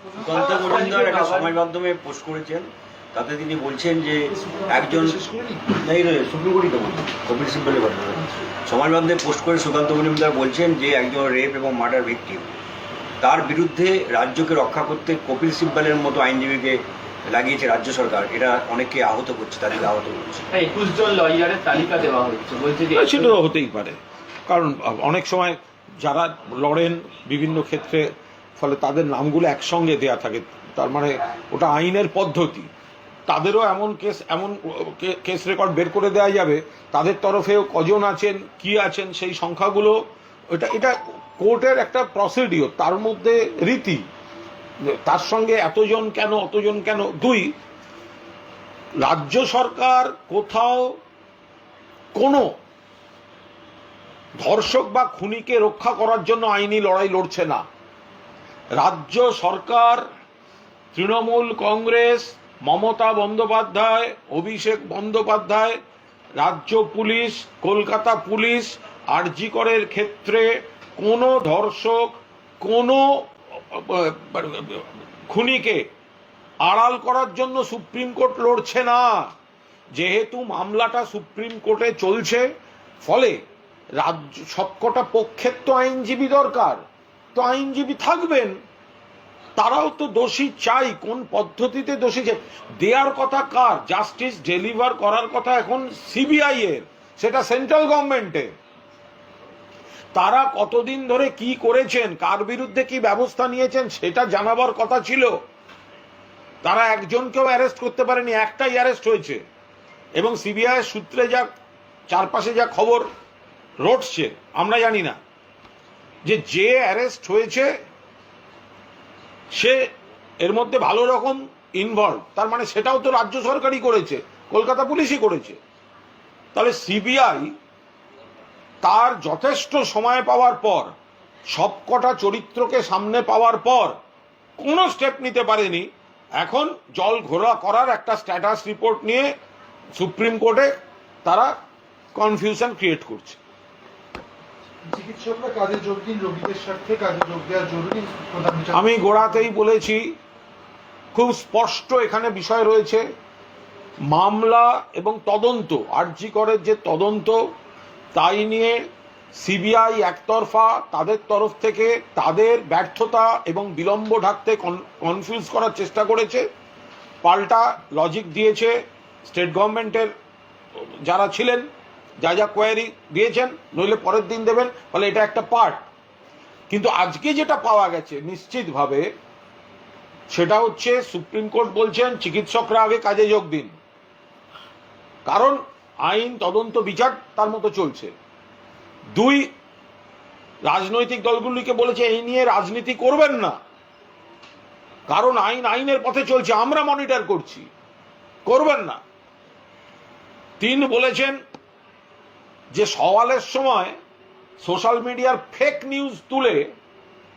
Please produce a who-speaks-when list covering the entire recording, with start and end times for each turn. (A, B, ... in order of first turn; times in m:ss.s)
0:00.1-0:01.5 A
0:00.2-0:12.6 B
0:04.4-0:05.6 C
0:13.2-0:20.4 B
0:20.5-0:23.3 A
0:22.9-0:24.0 D
0:24.5-0:28.0 D
0:28.6-0:32.7 D
0:33.3-0:40.0 D
0:40.5-0:44.0 D
0:44.9-0:47.5 D
0:49.0-0:50.9 D
0:52.1-0:52.4 D
0:54.4-0:57.6 D
0:58.8-1:00.0 D
1:00.9-1:05.8 D
1:06.4-1:12.1 D
1:12.6-1:15.8 D
1:16.6-1:19.3 D
1:19.9-1:22.4 D
1:23.0-1:23.4 D
1:24.0-1:26.8 D
1:27.3-1:28.5 D
1:29.6-1:38.5 D
1:40.1-1:45.3 D
1:46.6-1:49.4 D
1:50.2-1:51.5 D
1:52.1-1:53.0 D
1:53.8-1:55.2 D
1:56.2-1:57.7 D
1:59.5-1:59.8 D
2:00.4-2:05.6 D
2:06.5-2:07.5 D
2:08.8-2:10.9 D
2:11.5-2:13.9 D
2:14.6-2:15.9 D
2:16.4-2:19.3 D
2:20.0-2:20.7 D
2:21.2-2:21.5 D
2:22.1-2:23.4 D
2:24.9-2:28.9 C
2:28.7-2:30.0 D
2:31.1-2:33.0 D
2:34.1-2:37.4 D
2:38.1-2:38.8 D
2:39.4-2:46.4 D
2:47.2-2:48.7 D
2:49.2-2:50.1 D
2:51.0-2:51.6 D
2:52.2-2:55.9 D
2:56.7-2:59.0 D
3:00.3-3:03.7 D
3:05.2-3:08.1 D
3:09.1-3:09.5 D
3:10.6-3:13.6 D
3:15.1-3:17.7 D
3:18.4-3:19.0 D
3:20.6-3:21.4 D
3:22.7-3:23.9 D
3:24.6-3:26.6 D